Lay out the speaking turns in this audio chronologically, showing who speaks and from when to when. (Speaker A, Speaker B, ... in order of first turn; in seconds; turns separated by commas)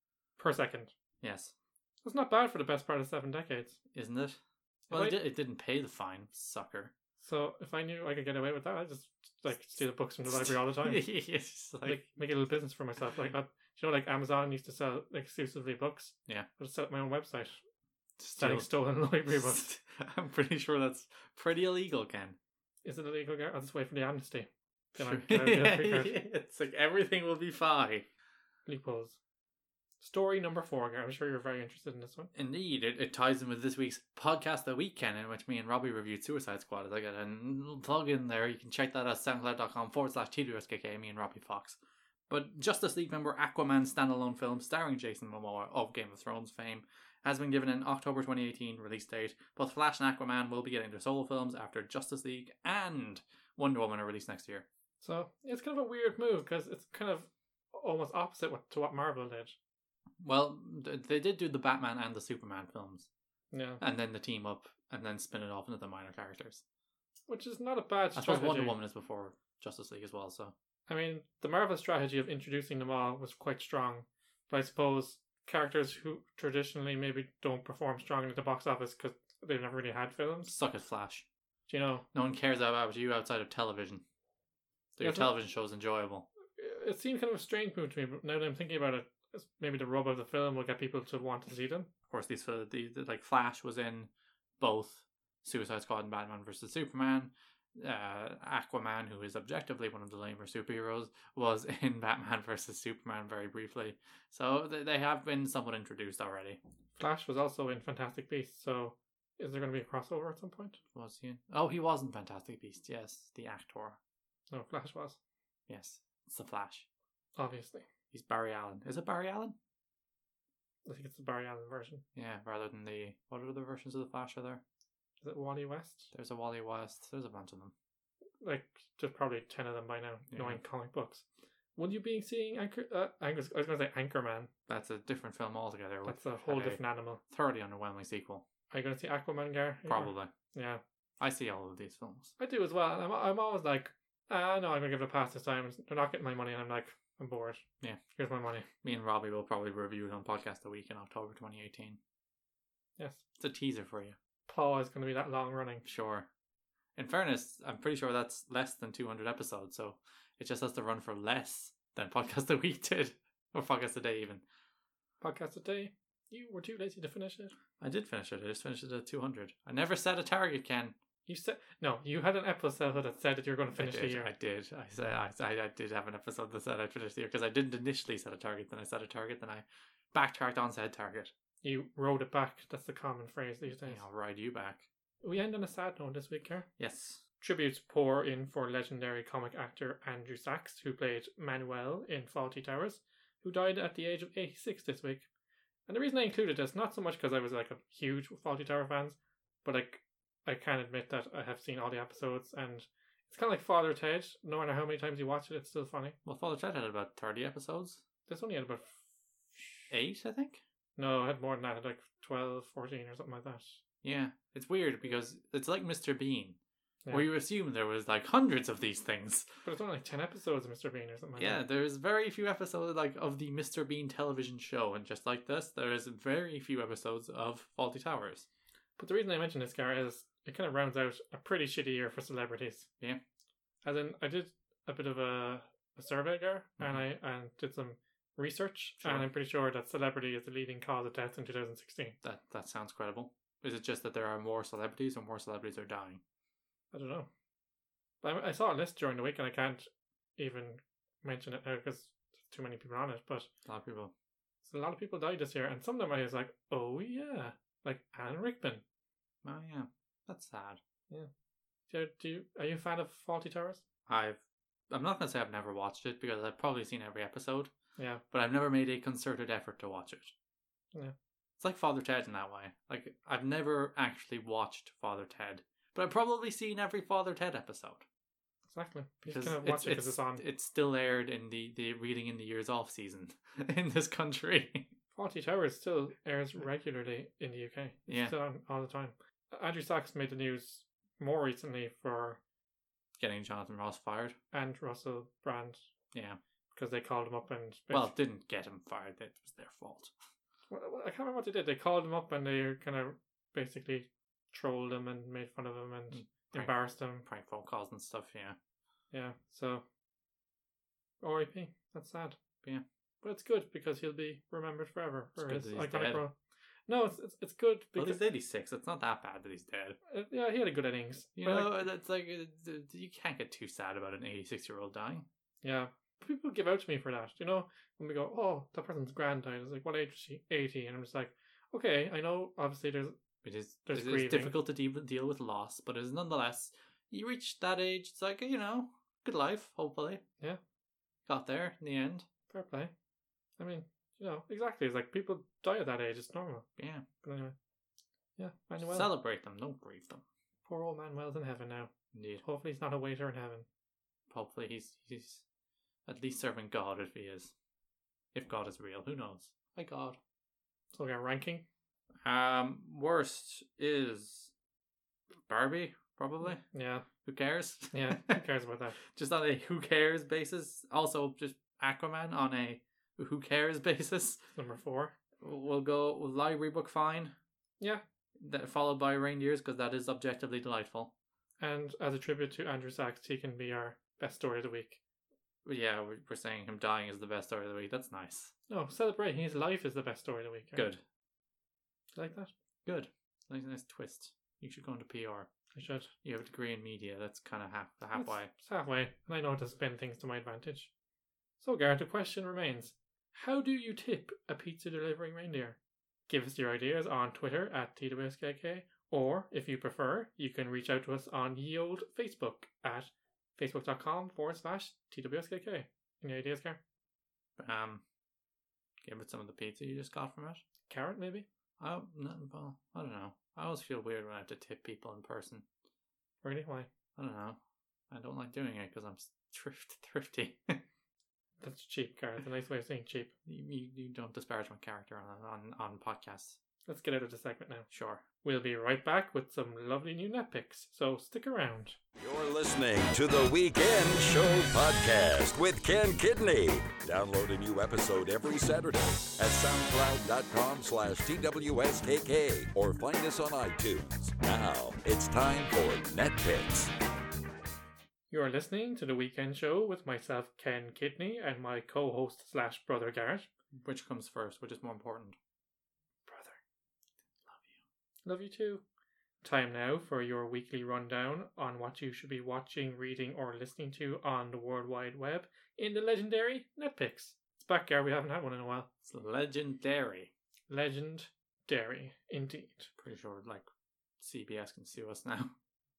Speaker A: 0.4-0.9, Speaker B: 1.2-1.5, Speaker A: 2.0-3.8, Speaker B: 3.9-4.4, Speaker A: 4.9-5.2, Speaker B: 4.9-6.9, Speaker A: 7.2-11.1, Speaker B: 10.3-12.0, Speaker A: 11.8-17.6, Speaker B: 18.2-22.4, Speaker A: 18.4-19.6, Speaker A: 22.8-26.1, Speaker B: 24.9-28.1, Speaker A: 28.7-29.2, Speaker A: 30.0-32.3, Speaker B: 32.3-41.8, Speaker B: 42.3-54.7, Speaker A: 55.0-59.6, Speaker B: 60.2-63.1, Speaker A: 63.5-63.8, Speaker B: 63.8-66.6, Speaker A: 67.3-68.8, Speaker B: 68.2-70.5, Speaker A: 70.9-80.5, Speaker B: 80.5-81.3, Speaker A: 81.7-82.0, Speaker B: 82.1-84.0, Speaker B: 85.0-86.3, Speaker A: 85.0-85.3, Speaker A: 86.6-91.9, Speaker B: 92.1-106.6, Speaker A: 107.0-110.8, Speaker B: 111.0-114.0, Speaker A: 114.5-115.2, Speaker B: 115.7-116.9, Speaker A: 117.4-117.9, Speaker B: 118.1-119.6, Speaker A: 120.9-122.0, Speaker B: 122.2-124.6, Speaker A: 125.2-126.1, Speaker B: 126.1-127.7, Speaker A: 128.4-131.2, Speaker B: 130.3-130.6, Speaker A: 131.8-134.5, Speaker B: 134.7-138.5, Speaker A: 136.1-137.2, Speaker A: 138.7-140.8, Speaker B: 139.9-140.3, Speaker B: 141.2-142.3, Speaker A: 142.4-148.7, Speaker B: 148.8-152.0, Speaker A: 153.0-153.2, Speaker B: 153.4-154.2, Speaker A: 154.5-155.8, Speaker B: 155.8-156.3, Speaker B: 157.0-164.4, Speaker A: 165.2-167.5, Speaker B: 167.8-170.9, Speaker A: 171.3-174.3, Speaker B: 173.8-181.3, Speaker A: 181.6-184.0, Speaker B: 183.9-184.9, Speaker A: 185.2-186.7, Speaker B: 186.8-187.2, Speaker A: 187.4-195.3, Speaker A: 195.9-206.2, Speaker B: 206.2-208.0, Speaker A: 208.3-209.0, Speaker A: 209.5-209.8, Speaker B: 209.9-210.6, Speaker A: 211.0-213.8, Speaker B: 214.0-216.6, Speaker B: 217.1-219.5, Speaker A: 219.6-221.6, Speaker B: 221.4-228.5, Speaker A: 229.0-232.9, Speaker A: 233.8-242.2, Speaker B: 236.8-237.0, Speaker B: 239.0-239.3, Speaker B: 242.2-246.2, Speaker A: 246.9-247.3, Speaker A: 248.2-253.5, Speaker B: 253.7-254.1, Speaker A: 254.7-258.8, Speaker B: 259.4-260.8, Speaker A: 261.9-263.8, Speaker B: 264.1-267.7, Speaker A: 268.0-268.2, Speaker B: 268.3-270.3, Speaker B: 271.6-278.1, Speaker A: 278.7-280.4, Speaker B: 279.3-284.9, Speaker A: 285.1-292.4, Speaker B: 288.1-288.4, Speaker B: 293.2-294.4, Speaker A: 294.5-295.8, Speaker B: 296.1-296.4, Speaker A: 296.7-298.1, Speaker B: 297.9-300.1, Speaker A: 300.7-307.3, Speaker B: 306.1-308.6, Speaker A: 309.1-309.8, Speaker A: 311.2-312.4, Speaker A: 313.2-316.3, Speaker B: 315.4-316.2, Speaker A: 316.9-318.2, Speaker B: 318.0-320.0, Speaker A: 320.1-321.9, Speaker B: 321.4-325.2, Speaker A: 325.6-333.1, Speaker B: 333.4-340.2, Speaker A: 333.9-334.6, Speaker B: 341.3-342.3, Speaker A: 342.5-342.9, Speaker A: 343.6-346.7, Speaker B: 346.8-347.1, Speaker A: 347.2-347.6, Speaker A: 348.4-349.1, Speaker B: 348.8-350.2, Speaker A: 350.7-353.7, Speaker B: 352.1-352.4, Speaker B: 354.3-355.4, Speaker B: 356.1-357.5, Speaker B: 358.3-360.2, Speaker A: 360.9-361.7, Speaker B: 362.2-364.5, Speaker B: 365.5-366.6, Speaker A: 366.5-367.1, Speaker B: 367.2-368.4, Speaker A: 367.9-369.0, Speaker B: 369.1-374.4, Speaker A: 374.6-375.1, Speaker B: 375.4-377.3, Speaker B: 378.4-381.1, Speaker A: 381.6-385.0, Speaker B: 385.6-388.5, Speaker A: 388.7-390.9, Speaker B: 390.8-391.0, Speaker A: 392.1-392.5, Speaker B: 392.9-395.5, Speaker A: 395.8-396.1, Speaker B: 396.2-398.5, Speaker A: 398.1-400.9, Speaker A: 401.6-416.8, Speaker B: 417.6-418.0, Speaker B: 419.0-420.6, Speaker A: 420.9-421.5, Speaker B: 421.8-425.6, Speaker A: 426.4-426.9, Speaker B: 427.2-427.6, Speaker B: 428.1-430.8, Speaker A: 431.6-433.3, Speaker B: 433.5-436.6, Speaker A: 436.9-437.9, Speaker B: 437.9-438.2, Speaker A: 438.4-442.0, Speaker C: 442.2-456.9, Speaker A: 458.3-463.5, Speaker B: 463.7-465.4, Speaker A: 466.3-466.6, Speaker B: 467.5-467.8, Speaker A: 468.3-468.8, Speaker A: 469.4-478.9, Speaker B: 479.0-480.3, Speaker A: 480.7-482.9, Speaker B: 483.0-483.7, Speaker B: 484.2-485.5